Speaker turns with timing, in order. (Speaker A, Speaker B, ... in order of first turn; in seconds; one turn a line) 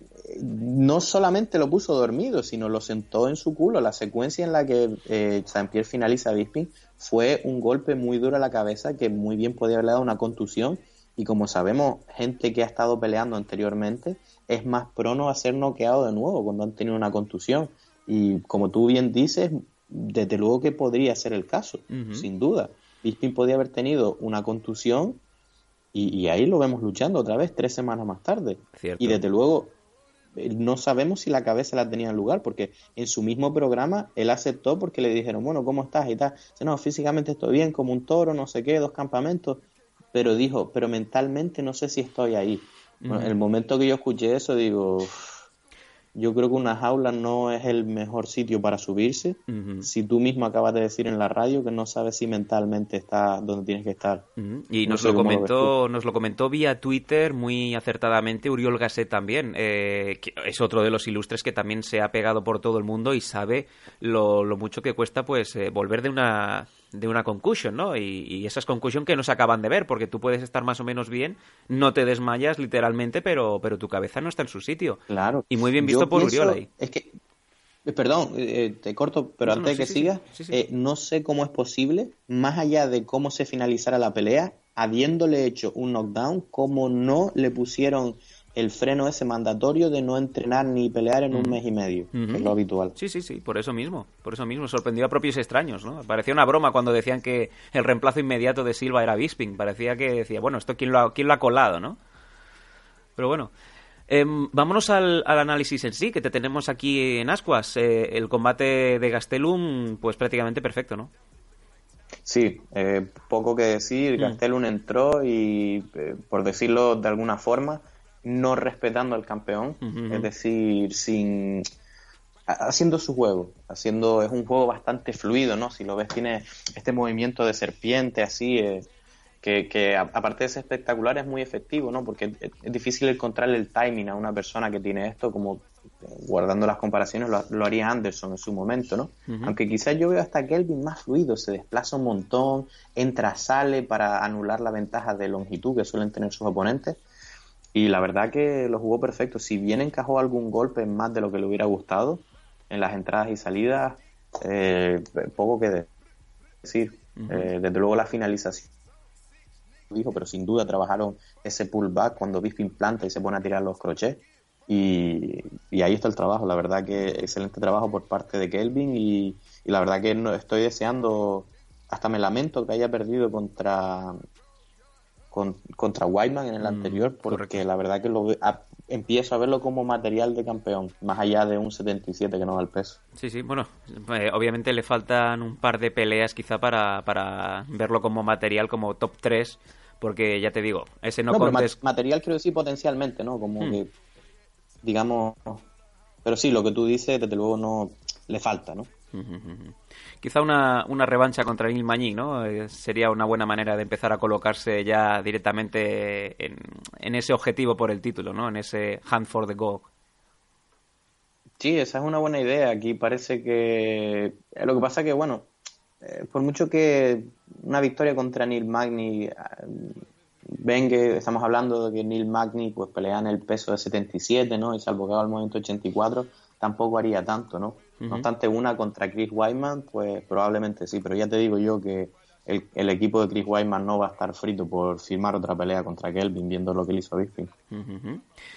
Speaker A: 0.2-25.2
Speaker B: 21.9-22.3
Speaker A: 25.9-29.8
Speaker B: 28.8-29.2
Speaker A: 30.4-45.3
Speaker B: 43.0-43.4
Speaker A: 46.1-54.3
Speaker B: 49.5-49.9
Speaker B: 54.4-76.7
Speaker A: 54.8-55.7
Speaker A: 75.1-77.2
Speaker A: 77.8-93.0
Speaker B: 79.5-80.6
Speaker B: 91.3-91.6
Speaker B: 92.1-102.0
Speaker B: 103.2-103.5
Speaker B: 104.1-111.1
Speaker A: 112.2-121.6
Speaker B: 119.8-120.3
Speaker A: 122.5-128.9
Speaker A: 129.4-147.0
Speaker B: 139.3-139.6
Speaker A: 147.7-155.9
Speaker A: 156.6-158.7
Speaker B: 157.2-157.5
Speaker A: 159.9-174.2
Speaker A: 175.3-183.0
Speaker B: 176.6-177.6
Speaker B: 183.2-191.8
Speaker A: 191.3-193.9
Speaker A: 194.8-195.6
Speaker A: 196.2-198.9
Speaker B: 199.1-209.9
Speaker A: 211.6-215.5
Speaker A: 216.0-237.5
Speaker B: 228.0-228.3
Speaker B: 237.7-238.2